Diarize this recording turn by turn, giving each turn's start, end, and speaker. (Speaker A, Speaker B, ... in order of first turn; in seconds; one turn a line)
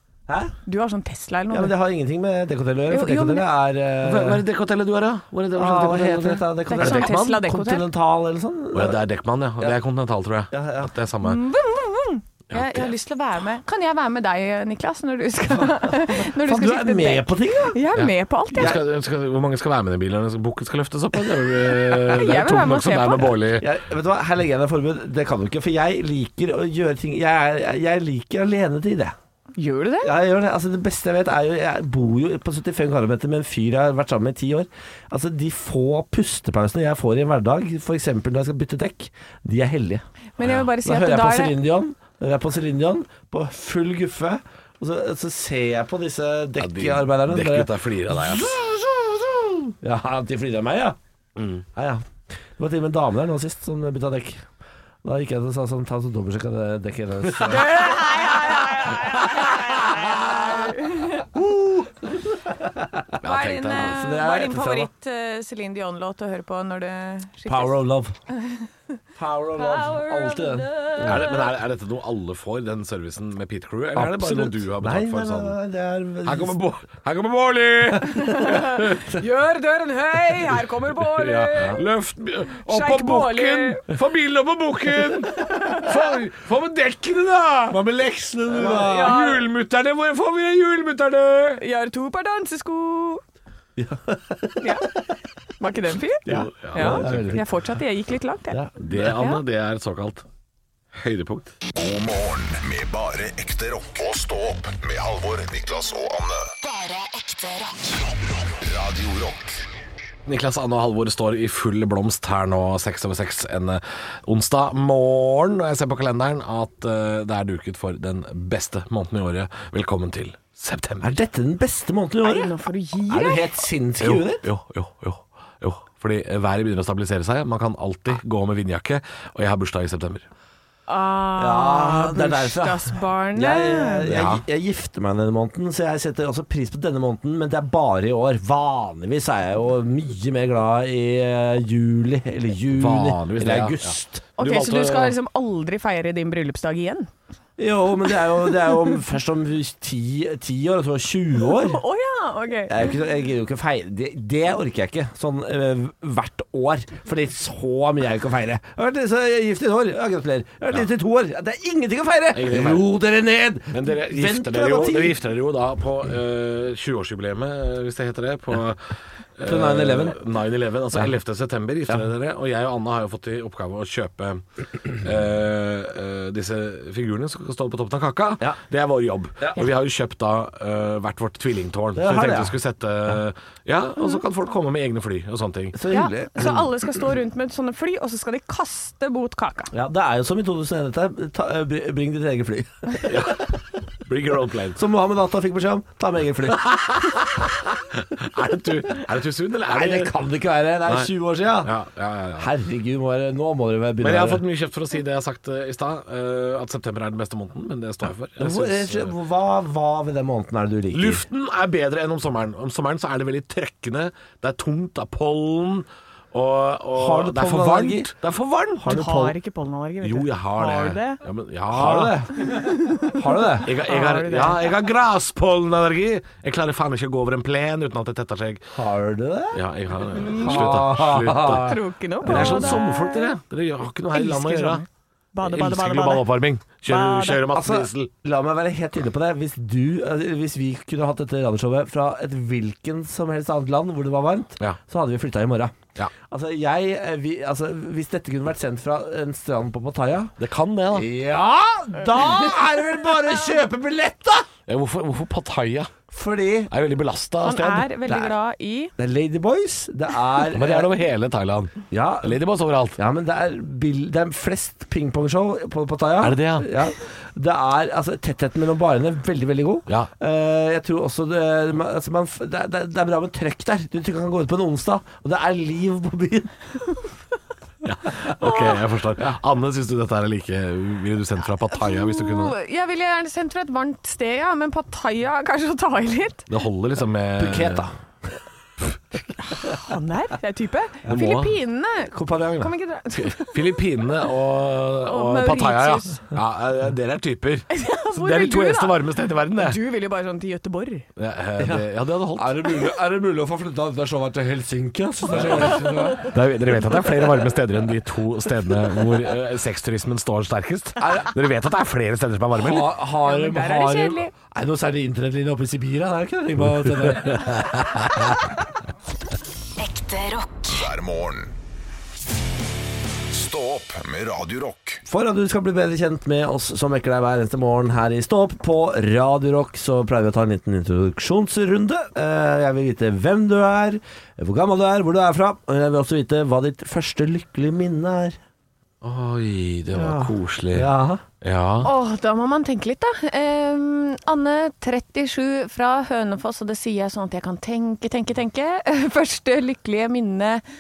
Speaker A: 0.3-0.5
Speaker B: 0.7-1.8
Speaker A: 1.5-4.4
Speaker B: 2.9-3.5
Speaker C: 4.0-7.4
Speaker A: 5.5-9.0
Speaker B: 6.7-7.9
Speaker C: 8.7-11.4
Speaker A: 10.5-10.9
Speaker B: 11.2-18.8
Speaker C: 12.5-12.9
Speaker A: 15.6-17.8
Speaker C: 18.0-23.7
Speaker A: 18.5-18.9
Speaker B: 21.7-23.4
Speaker A: 23.6-29.1
Speaker B: 29.6-30.1
Speaker A: 30.0-40.0
Speaker B: 40.4-41.6
Speaker A: 40.8-51.0
Speaker C: 46.6-48.5
Speaker C: 51.4-51.6
Speaker A: 51.8-52.1
Speaker A: 52.6-54.5
Speaker A: 55.0-58.0
Speaker C: 57.5-58.0
Speaker B: 57.5-61.2
Speaker C: 59.0-59.6
Speaker A: 61.3-63.1
Speaker C: 63.2-64.0
Speaker B: 63.2-68.7
Speaker A: 63.8-64.9
Speaker A: 67.5-68.2
Speaker A: 69.2-71.3
Speaker B: 69.6-71.4
Speaker C: 71.0-75.6
Speaker A: 73.9-76.6
Speaker C: 76.2-79.0
Speaker B: 78.1-81.8
Speaker C: 81.0-91.6
Speaker B: 82.6-83.9
Speaker A: 88.5-89.2
Speaker B: 88.8-89.4
Speaker B: 91.6-93.2
Speaker A: 93.8-94.8
Speaker B: 94.6-94.9
Speaker B: 95.6-99.4
Speaker C: 96.3-97.4
Speaker A: 96.3-97.5
Speaker A: 98.5-99.1
Speaker C: 98.8-100.2
Speaker C: 101.0-101.5
Speaker D: 101.8-106.4
Speaker E: 106.6-108.0
Speaker D: 108.1-109.6
Speaker C: 110.3-121.2
Speaker A: 121.0-122.5
Speaker B: 122.2-123.6
Speaker A: 123.1-124.4
Speaker C: 124.0-130.3
Speaker B: 130.9-134.1
Speaker A: 131.4-144.2
Speaker C: 134.1-134.4
Speaker C: 142.7-145.2
Speaker B: 144.4-147.1
Speaker A: 147.6-151.8
Speaker B: 151.5-152.9
Speaker A: 152.7-165.2
Speaker C: 162.3-162.9
Speaker C: 163.7-185.8
Speaker A: 169.4-170.2
Speaker A: 181.9-182.6
Speaker A: 185.7-186.7
Speaker B: 185.9-189.7
Speaker A: 189.7-193.4
Speaker C: 193.1-193.5
Speaker C: 194.1-194.8
Speaker A: 194.8-196.8
Speaker C: 196.5-200.1
Speaker A: 199.7-201.7
Speaker C: 200.9-202.5
Speaker A: 202.4-204.4
Speaker C: 204.0-209.2
Speaker A: 208.4-211.3
Speaker C: 210.9-218.9
Speaker A: 216.9-218.1
Speaker A: 218.8-219.3
Speaker B: 218.9-221.2
Speaker C: 220.0-222.2
Speaker A: 221.7-223.7
Speaker B: 222.4-224.8
Speaker C: 223.7-228.7
Speaker A: 228.8-229.6
Speaker C: 229.5-234.8
Speaker A: 230.2-232.9
Speaker B: 230.2-230.7
Speaker B: 231.4-233.3
Speaker B: 234.1-237.4
Speaker C: 235.4-238.1
Speaker A: 237.5-250.3
Speaker C: 250.4-251.1
Speaker A: 250.9-254.5
Speaker C: 254.7-256.0
Speaker A: 256.1-256.7
Speaker C: 256.7-258.3
Speaker B: 257.4-258.9
Speaker A: 259.0-260.9
Speaker C: 260.5-263.0
Speaker A: 261.9-262.4
Speaker A: 263.0-276.6
Speaker C: 266.2-266.7
Speaker C: 277.8-282.6
Speaker B: 281.7-286.5
Speaker C: 286.5-287.9
Speaker A: 287.4-287.9
Speaker B: 289.4-293.8
Speaker C: 291.1-291.6
Speaker A: 292.1-292.7
Speaker C: 293.1-299.8
Speaker B: 295.1-296.2
Speaker B: 297.7-299.0
Speaker B: 299.6-301.1
Speaker C: 301.2-302.6
Speaker A: 301.6-306.4
Speaker C: 305.3-312.9
Speaker A: 311.0-311.3
Speaker A: 312.5-317.9
Speaker B: 313.2-314.3
Speaker C: 317.3-318.3
Speaker E: 319.8-320.8
Speaker D: 320.7-321.5
Speaker D: 323.3-325.0
Speaker A: 325.1-338.4
Speaker C: 339.0-340.9
Speaker A: 339.9-341.2
Speaker C: 341.4-341.9
Speaker B: 341.8-350.6